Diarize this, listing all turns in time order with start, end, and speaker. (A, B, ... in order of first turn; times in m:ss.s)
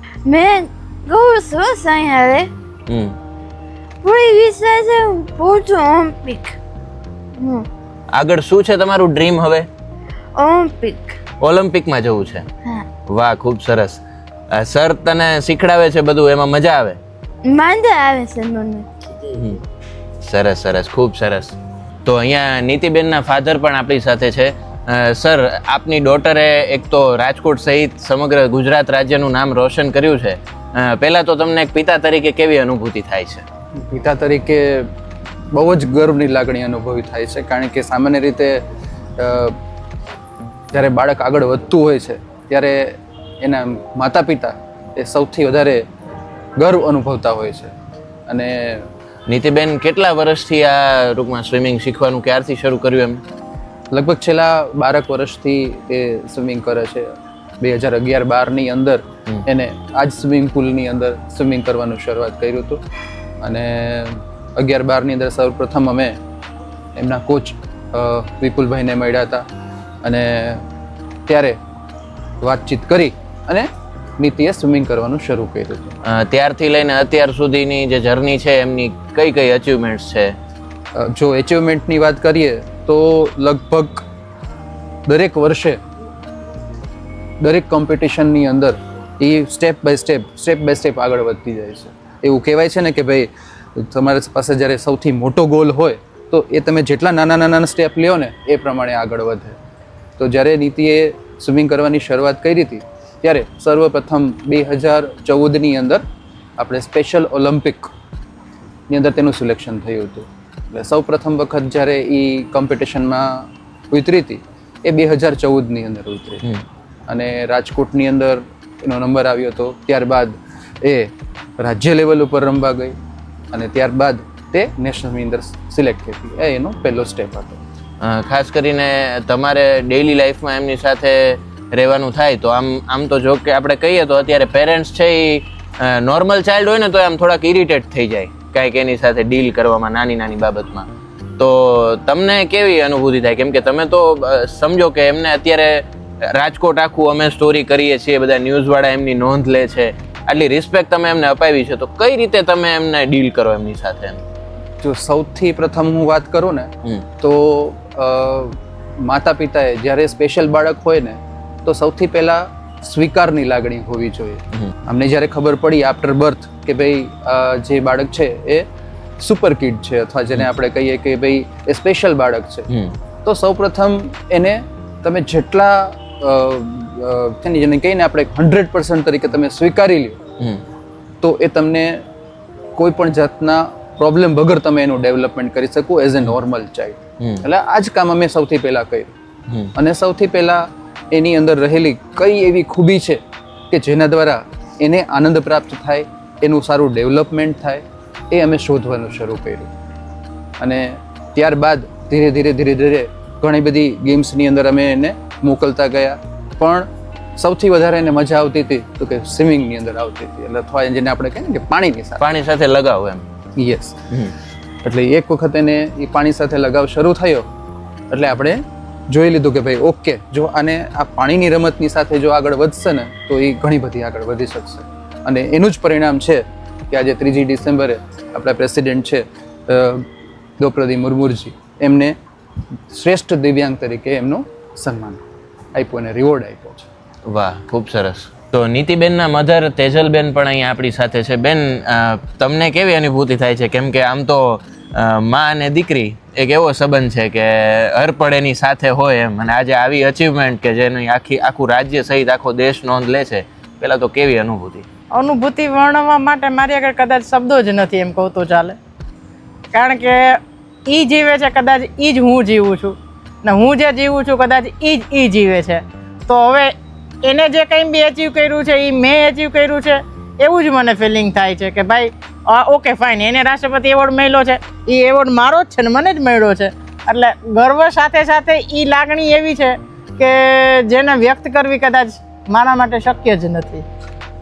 0:00.2-0:02.5 A
0:02.9-0:03.2 B
0:04.0-0:06.6 A
0:07.4-0:07.6 A
0:08.1-0:09.7 B
0:10.4-0:11.2 A
0:11.4-0:12.4 B
0:13.1-0:17.0 B
0:17.4-0:19.2 A
0:19.3-0:19.6 B
0:20.2-0:33.4 B
0:33.8-0:34.9 C
0:35.5-0:38.6 C
0:39.2-0:39.6 C
0:40.7-0:45.8 C
0:46.6-0:47.7 C
0:48.3-0:48.9 C
0:49.3-0:53.2 B
0:53.9-0:57.0 C
0:57.6-1:02.8 C
1:03.4-1:06.2 C
1:07.0-1:09.4 C
1:10.0-1:10.6 C
1:11.3-1:11.6 C
1:12.4-1:15.9 C
1:16.0-1:20.3 B
1:21.0-1:24.0 C
1:25.1-1:25.8 C
1:27.4-1:39.6 C
1:40.2-1:46.0 C
1:46.6-1:47.9 C
1:48.9-1:56.4 C
1:57.1-2:03.0 C
2:03.5-2:07.6 C
2:08.0-2:34.2 B
2:34.8-2:36.7 C
2:37.2-2:48.6 C
2:49.2-2:52.7 C
2:53.2-3:00.2 C
3:01.2-3:02.0 C
3:02.8-3:09.1 C
3:07.2-3:07.4 B
3:09.8-3:13.2 C
3:13.7-3:19.7 C
3:20.6-3:32.2 C
3:32.2-3:33.2 B
3:33.6-3:34.0 C
3:34.8-3:37.5 C
3:38.1-3:50.0 C
3:50.6-3:52.2 C
3:52.9-3:55.2 C
3:55.7-3:56.9 C
3:57.3-4:14.8 B
4:15.1-4:18.8 D
4:19.7-4:26.7 D
4:27.2-4:43.8 D